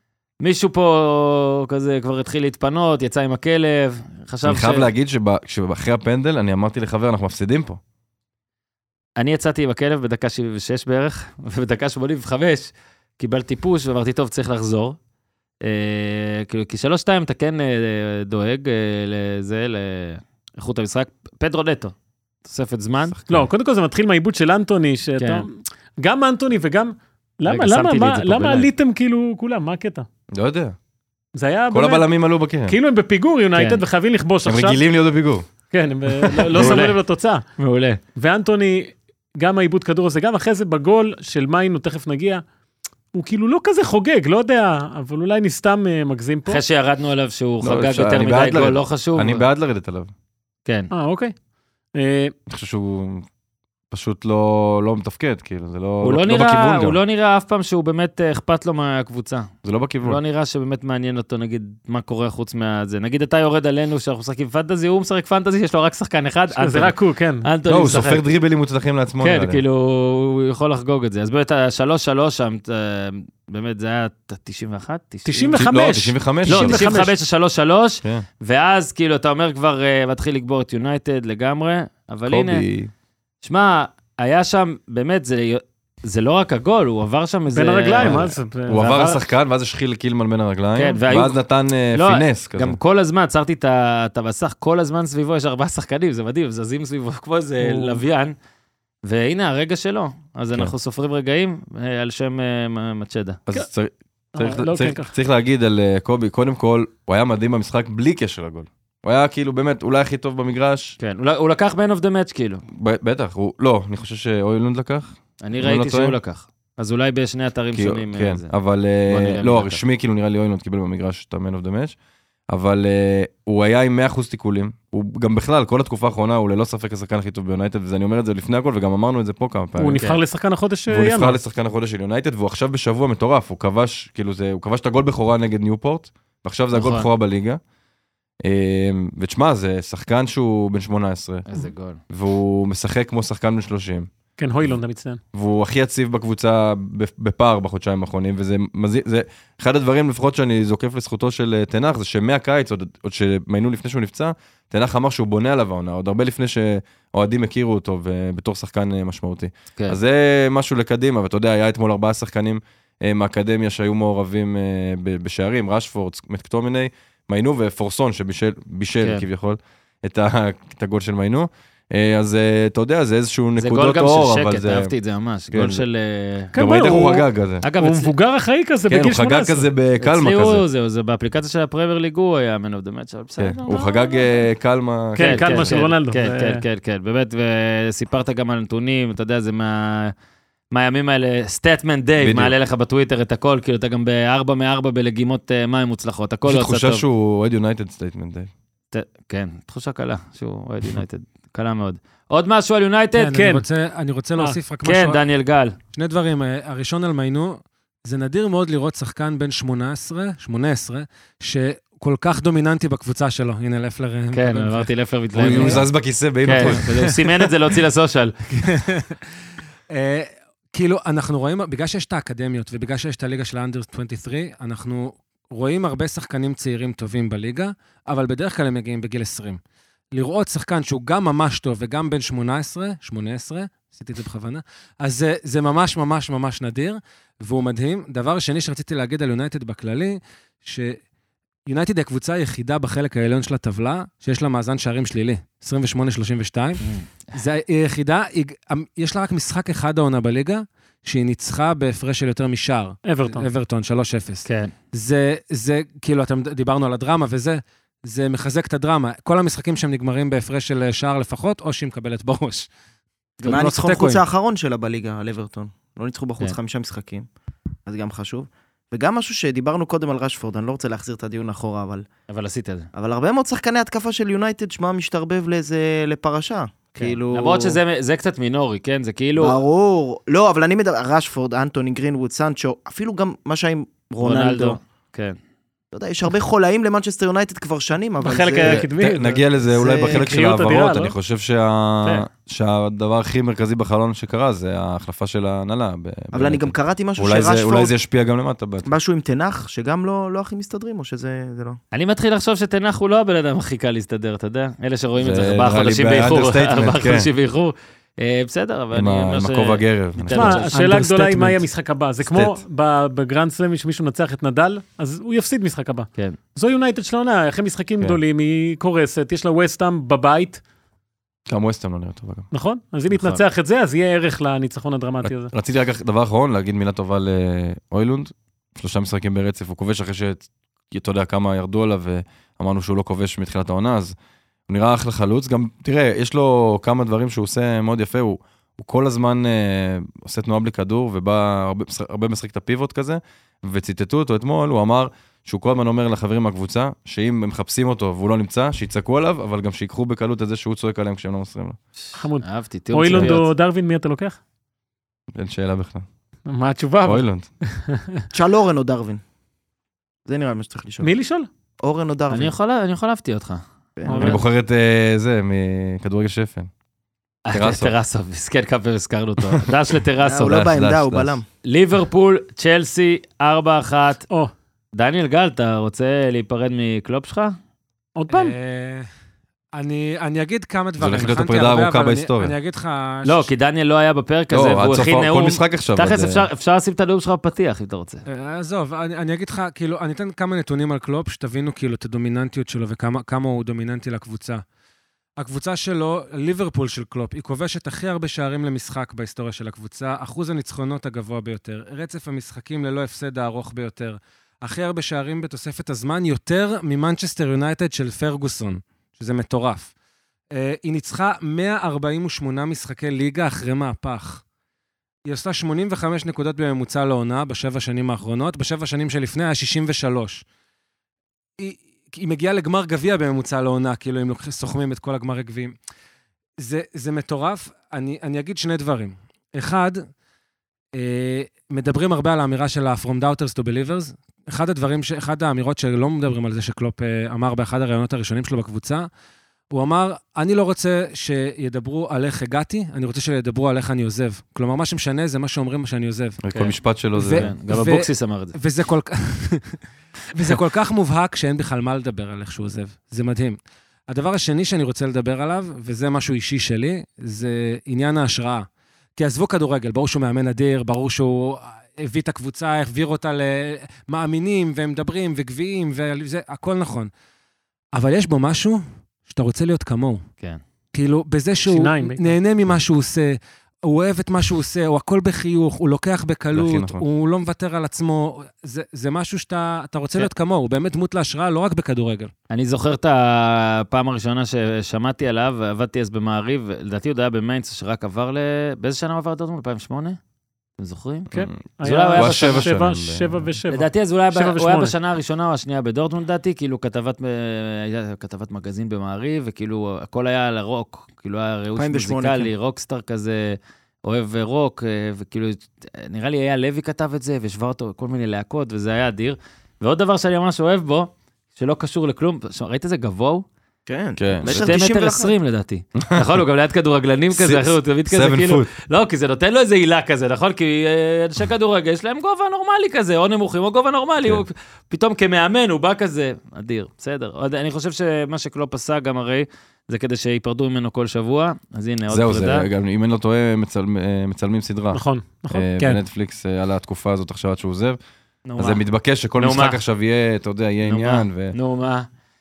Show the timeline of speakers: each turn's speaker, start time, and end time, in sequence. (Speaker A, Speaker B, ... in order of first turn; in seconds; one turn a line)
Speaker A: 0.4-4.9
Speaker B: 4.4-7.8
Speaker A: 9.2-15.0
Speaker A: 15.6-21.9
Speaker A: 22.4-23.2
Speaker B: 23.1-23.5
Speaker C: 23.3-30.1
Speaker A: 25.2-25.5
Speaker A: 27.5-28.7
Speaker B: 30.3-30.8
Speaker C: 31.4-32.1
Speaker B: 31.7-32.8
Speaker C: 32.6-34.8
Speaker A: 33.5-33.8
Speaker B: 34.5-35.5
Speaker C: 35.7-37.4
Speaker A: 36.2-37.0
Speaker B: 36.6-36.8
Speaker A: 37.6-38.0
Speaker C: 38.2-42.4
Speaker C: 43.1-46.6
Speaker A: 46.5-49.5
Speaker B: 47.6-50.1
Speaker C: 50.9-51.3
Speaker C: 52.0-52.3
Speaker B: 52.5-53.3
Speaker B: 53.9-57.0
Speaker A: 56.0-59.5
Speaker B: 59.6-60.2
Speaker A: 60.0-68.2
Speaker C: 66.5-67.5
Speaker B: 67.7-69.6
Speaker A: 69.2-75.7
Speaker C: 75.3-77.1
Speaker B: 75.6-76.8
Speaker A: 76.5-82.7
Speaker B: 82.3-82.9
Speaker A: 83.4-89.2
Speaker C: 87.5-89.2
Speaker B: 88.0-92.8
Speaker A: 90.8-91.4
Speaker A: 91.9-98.4
Speaker A: 99.0-103.4
Speaker B: 103.5-111.0
Speaker C: 104.3-105.1
Speaker A: 111.0-112.6
Speaker B: 112.7-116.2
Speaker A: 115.4-118.5
Speaker B: 117.7-122.0
Speaker A: 119.1-119.8
Speaker B: 122.5-130.1
Speaker C: 129.8-131.4
Speaker B: 130.9-137.6
Speaker A: 136.7-137.1
Speaker B: 138.4-141.5
Speaker A: 141.5-142.0
Speaker B: 142.1-144.1
Speaker C: 144.4-145.2
Speaker B: 145.3-174.9
Speaker A: 169.0-169.2
Speaker A: 173.6-176.5
Speaker B: 175.5-175.8
Speaker B: 176.5-177.6
Speaker C: 176.6-177.3
Speaker A: 177.6-178.1
Speaker C: 177.8-179.7
Speaker B: 178.9-180.6
Speaker A: 180.0-184.4
Speaker B: 183.4-185.8
Speaker C: 185.2-186.6
Speaker A: 185.2-190.1
Speaker A: 190.7-197.0
Speaker B: 192.2-192.5
Speaker B: 196.5-198.5
Speaker A: 198.9-203.5
Speaker D: 203.2-205.2
Speaker C: 203.3-203.7
Speaker A: 204.8-205.8
Speaker D: 205.9-215.8
Speaker A: 214.3-215.8
Speaker B: 215.3-217.1
Speaker A: 216.4-218.4
Speaker D: 216.6-217.1
Speaker D: 218.6-219.2
Speaker D: 219.9-229.6
Speaker D: 230.1-241.0
Speaker D: 241.7-262.7
Speaker A: 246.8-247.1
Speaker C: 253.1-253.5
Speaker A: 254.4-254.7
Speaker D: 263.4-264.2
Speaker E: 263.5-267.3
Speaker E: 267.9-272.1
Speaker A: 272.3-272.9
Speaker E: 273.0-277.8
Speaker A: 277.0-279.6
Speaker E: 279.4-284.8
Speaker A: 284.2-285.4
Speaker E: 285.9-288.9
Speaker C: 288.2-291.1
Speaker B: 288.6-298.9
Speaker E: 289.8-290.2
Speaker E: 296.3-297.9
Speaker E: 298.9-301.8
Speaker A: 301.9-310.9
Speaker B: 305.2-307.3
Speaker B: 308.9-310.7
Speaker C: 310.3-320.6
Speaker D: 310.7-311.6
Speaker B: 312.2-312.6
Speaker B: 321.5-322.5
Speaker C: 322.5-325.5
Speaker A: 323.1-323.4
Speaker B: 325.2-334.1
Speaker B: 334.7-351.8
Speaker C: 352.1-354.4
Speaker A: 352.4-353.5
Speaker B: 353.1-353.4
Speaker B: 355.3-356.1
Speaker C: 356.5-358.2
Speaker B: 357.0-357.5
Speaker E: 358.3-359.2
Speaker E: 360.3-361.1
Speaker C: 361.0-361.5
Speaker E: 361.8-362.5
Speaker A: 362.3-364.4
Speaker C: 364.1-364.4
Speaker B: 364.1-366.7
Speaker A: 367.5-370.6
Speaker B: 367.5-367.9
Speaker E: 370.2-371.4
Speaker B: 370.4-371.4
Speaker A: 371.6-374.2
Speaker A: 374.9-377.6
Speaker C: 378.1-378.5
Speaker D: 378.3-379.1
Speaker D: 379.8-383.5
Speaker B: 381.0-382.6
Speaker A: 383.2-388.2
Speaker B: 384.5-386.5
Speaker D: 388.3-394.6
Speaker D: 395.4-409.9
Speaker D: 410.5-414.4
Speaker D: 415.3-420.4
Speaker D: 421.6-425.8
Speaker D: 426.6-430.1
Speaker D: 430.9-439.1
Speaker D: 439.7-446.4
Speaker B: 446.4-447.5
Speaker A: 446.5-446.8
Speaker D: 447.1-449.8
Speaker A: 447.3-448.6
Speaker D: 450.3-453.6
Speaker D: 454.1-467.1
Speaker D: 467.9-470.2
Speaker D: 470.9-482.3
Speaker C: 471.7-472.3
Speaker B: 476.5-477.0
Speaker A: 482.5-490.2
Speaker A: 490.8-491.3
Speaker C: 491.3-494.9
Speaker A: 491.8-492.7
Speaker B: 492.1-493.5
Speaker A: 493.7-513.5
Speaker E: 501.8-502.5
Speaker E: 513.9-515.3
Speaker B: 514.2-514.7
Speaker A: 514.4-532.7
Speaker B: 516.0-516.2
Speaker B: 517.3-518.7
Speaker B: 532.1-538.0
Speaker C: 534.9-535.8
Speaker A: 538.5-538.8
Speaker B: 538.6-541.5
Speaker A: 539.4-539.8
Speaker A: 540.8-542.1